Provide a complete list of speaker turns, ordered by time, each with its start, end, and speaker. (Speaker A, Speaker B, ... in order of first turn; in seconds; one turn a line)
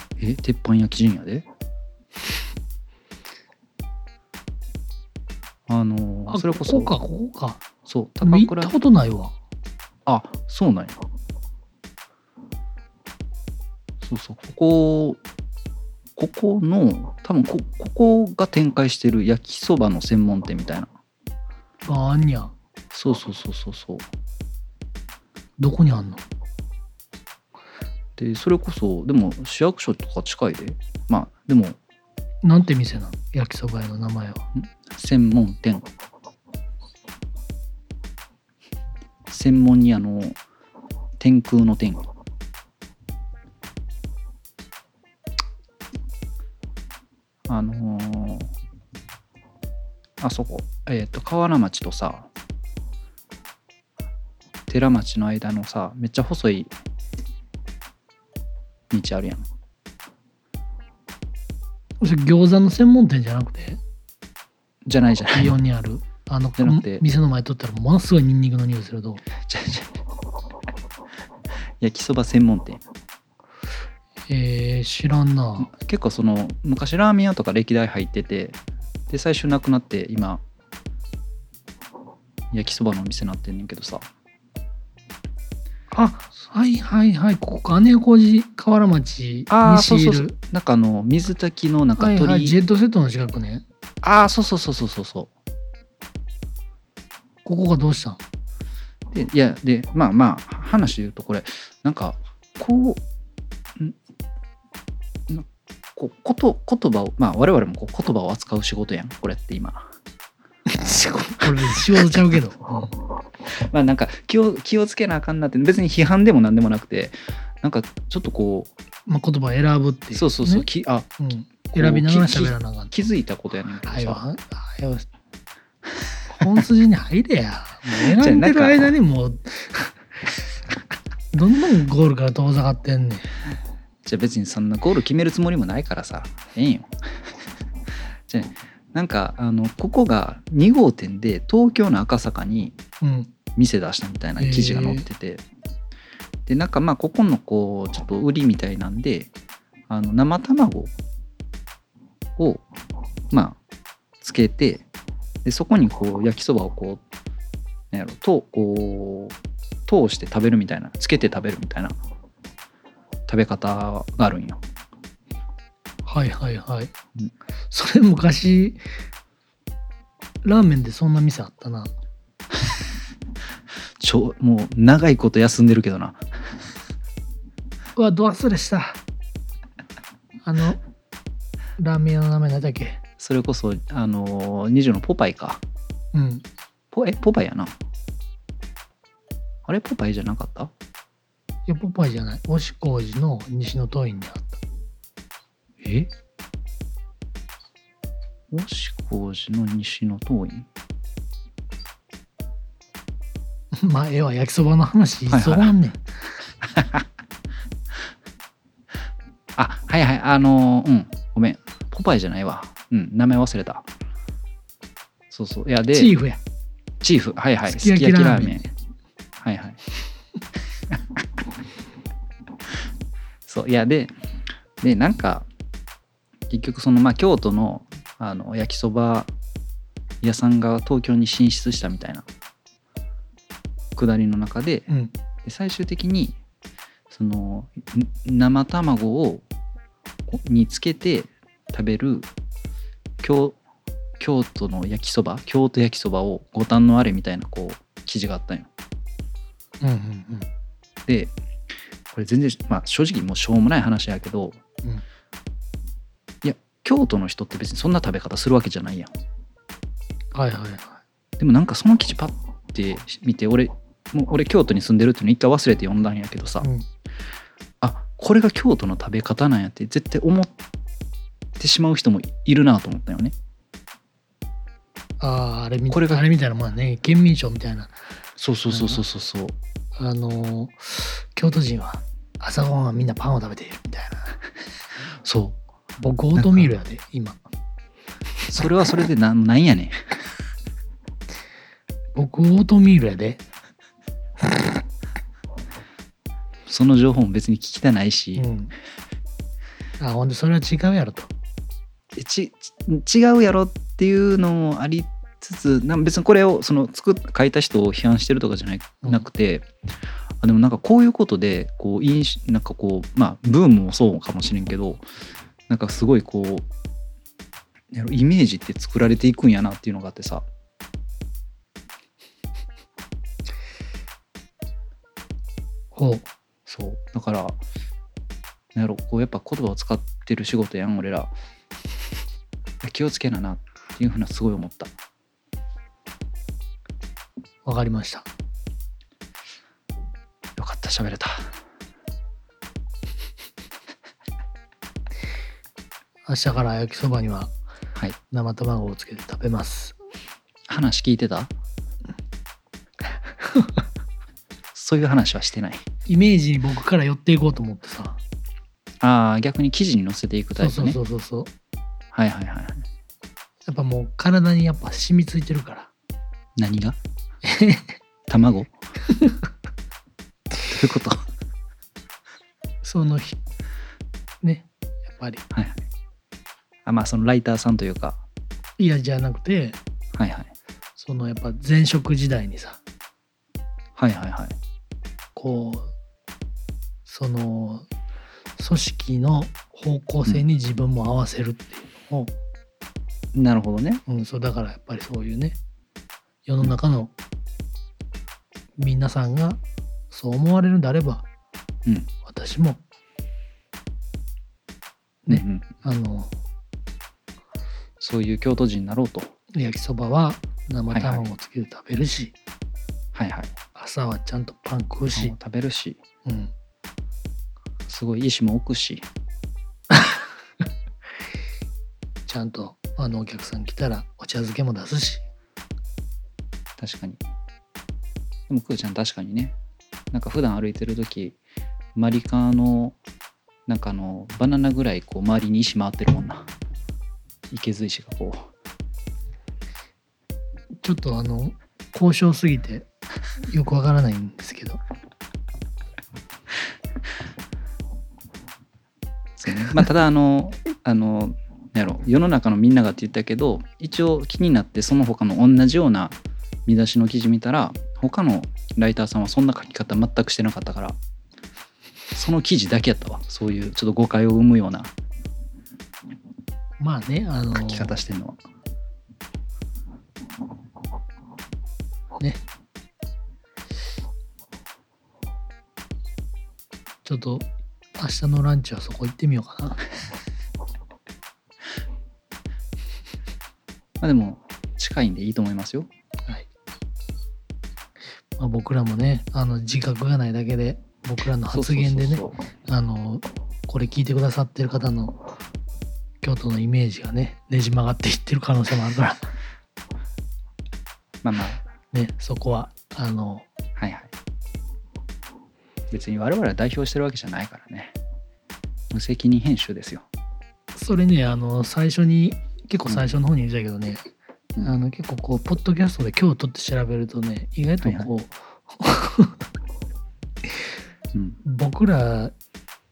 Speaker A: 0.2-1.5
Speaker A: 5.7-6.9
Speaker B: 6.3-7.6
Speaker A: 7.9-8.8
Speaker B: 8.2-9.3
Speaker A: 10.1-11.0
Speaker A: 14.0-15.2
Speaker A: 16.2-20.9
Speaker B: 21.9-22.5
Speaker A: 22.9-24.1
Speaker B: 25.6-26.2
Speaker A: 28.2-31.8
Speaker B: 32.4-34.5
Speaker A: 34.6-35.9
Speaker A: 39.3-40.4
Speaker A: 41.2-42.0
Speaker A: 47.5-48.5
Speaker A: 50.2-52.3
Speaker A: 54.7-56.7
Speaker A: 58.9-59.5
Speaker B: 62.0-63.8
Speaker A: 64.9-65.6
Speaker B: 65.3-69.2
Speaker A: 66.6-67.0
Speaker A: 69.4-69.9
Speaker A: 71.8-72.8
Speaker B: 74.3-75.7
Speaker A: 75.6-80.4
Speaker A: 82.5-84.1
Speaker B: 85.9-90.4
Speaker A: 89.5-92.6
Speaker B: 92.0-93.6
Speaker A: 94.0-95.3
Speaker B: 97.5-98.2
Speaker A: 99.1-103.0
Speaker A: 105.3-109.9
Speaker B: 110.7-112.9
Speaker A: 113.5-118.7
Speaker B: 119.1-120.7
Speaker A: 120.1-121.1
Speaker B: 121.2-122.9
Speaker A: 121.7-124.2
Speaker B: 123.8-125.1
Speaker B: 126.3-130.0
Speaker A: 128.0-128.9
Speaker B: 131.3-133.3
Speaker A: 134.1-136.9
Speaker A: 138.3-142.8
Speaker B: 143.0-143.3
Speaker A: 143.6-145.4
Speaker B: 144.4-145.1
Speaker A: 146.5-149.3
Speaker A: 149.9-150.9
Speaker A: 152.4-152.7
Speaker A: 153.3-153.6
Speaker A: 154.2-154.8
Speaker A: 155.4-157.0
Speaker A: 157.9-162.0
Speaker A: 163.3-164.6
Speaker B: 166.1-166.9
Speaker B: 167.7-168.8
Speaker B: 170.4-171.9
Speaker A: 174.0-176.2
Speaker B: 178.0-179.0
Speaker B: 180.4-180.8
Speaker B: 181.8-183.0
Speaker A: 183.2-185.6
Speaker B: 186.1-186.4
Speaker A: 186.9-187.7
Speaker A: 189.7-190.7
Speaker B: 191.7-194.6
Speaker A: 195.8-196.1
Speaker A: 198.5-200.7
Speaker B: 203.7-206.0
Speaker A: 205.3-205.7
Speaker A: 206.7-207.1
Speaker A: 209.6-213.9
Speaker A: 215.3-216.1
Speaker B: 215.9-216.4
Speaker A: 217.0-218.7
Speaker B: 217.7-218.6
Speaker A: 219.4-219.8
Speaker A: 223.4-224.1
Speaker A: 224.8-225.5
Speaker A: 226.5-229.3
Speaker A: 230.2-232.3
Speaker A: 234.0-234.9
Speaker B: 234.9-235.1
Speaker A: 235.4-236.4
Speaker A: 237.1-239.4
Speaker A: 240.3-242.3
Speaker A: 243.2-243.6
Speaker A: 244.2-248.7
Speaker B: 249.8-250.5
Speaker A: 251.1-251.3
Speaker A: 252.1-254.6
Speaker A: 256.4-259.1
Speaker B: 260.3-261.0
Speaker A: 261.4-266.7
Speaker B: 266.6-266.9
Speaker A: 267.8-270.5
Speaker A: 271.6-273.3
Speaker B: 275.2-277.9
Speaker A: 275.9-276.2
Speaker A: 278.4-279.6
Speaker B: 278.7-279.0
Speaker B: 279.9-284.4
Speaker A: 285.2-285.6
Speaker B: 286.0-287.4
Speaker A: 286.4-286.7
Speaker A: 288.5-290.2
Speaker B: 292.1-293.4
Speaker A: 296.7-298.5
Speaker B: 298.4-298.7
Speaker B: 300.0-301.3
Speaker A: 302.1-309.7
Speaker A: 310.4-315.0
Speaker A: 315.7-316.7
Speaker A: 317.9-320.5
Speaker B: 325.9-326.3
Speaker A: 326.7-327.6
Speaker A: 328.8-331.3
Speaker A: 332.8-334.9
Speaker B: 337.6-338.3
Speaker A: 340.6-341.5
Speaker B: 346.2-347.5
Speaker B: 348.3-350.0
Speaker A: 350.7-351.5
Speaker B: 353.4-353.8
Speaker A: 354.7-355.9
Speaker B: 356.1-358.2
Speaker A: 359.0-361.0
Speaker B: 360.6-361.5
Speaker A: 362.1-362.9
Speaker B: 363.6-365.9
Speaker A: 366.6-367.0
Speaker B: 367.4-367.9
Speaker A: 368.3-368.7
Speaker B: 369.1-369.5
Speaker A: 370.6-371.3
Speaker B: 372.8-373.4
Speaker B: 374.4-375.4
Speaker A: 375.5-375.8
Speaker A: 376.9-378.2
Speaker B: 378.8-379.8
Speaker A: 380.1-380.5
Speaker B: 381.0-382.8
Speaker A: 384.0-384.6
Speaker B: 385.4-385.9
Speaker B: 387.1-387.9
Speaker B: 388.6-392.3
Speaker A: 393.3-394.0
Speaker B: 394.1-395.6
Speaker B: 396.5-397.1
Speaker B: 398.8-401.3
Speaker B: 402.2-402.8
Speaker B: 405.2-406.3
Speaker A: 405.3-405.7
Speaker A: 408.0-409.3
Speaker B: 409.5-412.3
Speaker A: 410.9-411.3
Speaker A: 413.1-413.5
Speaker B: 413.8-415.4
Speaker A: 415.1-416.0
Speaker B: 416.2-416.5
Speaker A: 417.9-419.1
Speaker B: 419.9-420.2
Speaker B: 422.3-425.3
Speaker A: 426.8-427.2
Speaker A: 428.5-429.6
Speaker A: 430.1-431.4
Speaker A: 432.0-433.0
Speaker A: 433.7-436.5
Speaker A: 437.5-438.5
Speaker B: 440.8-442.9
Speaker B: 443.4-444.8
Speaker A: 449.4-456.1
Speaker A: 456.7-461.0
Speaker A: 462.1-464.9
Speaker B: 466.8-467.9
Speaker A: 467.6-468.4
Speaker B: 472.2-472.4
Speaker B: 477.0-479.8
Speaker A: 484.0-485.9
Speaker B: 488.4-495.2
Speaker A: 491.5-492.4
Speaker B: 496.2-499.3
Speaker A: 501.2-501.6
Speaker B: 501.9-503.5
Speaker A: 503.8-504.1
Speaker A: 505.9-508.0
Speaker A: 508.9-510.1
Speaker B: 510.8-514.1
Speaker B: 514.6-519.5
Speaker A: 517.8-518.1
Speaker B: 521.4-522.3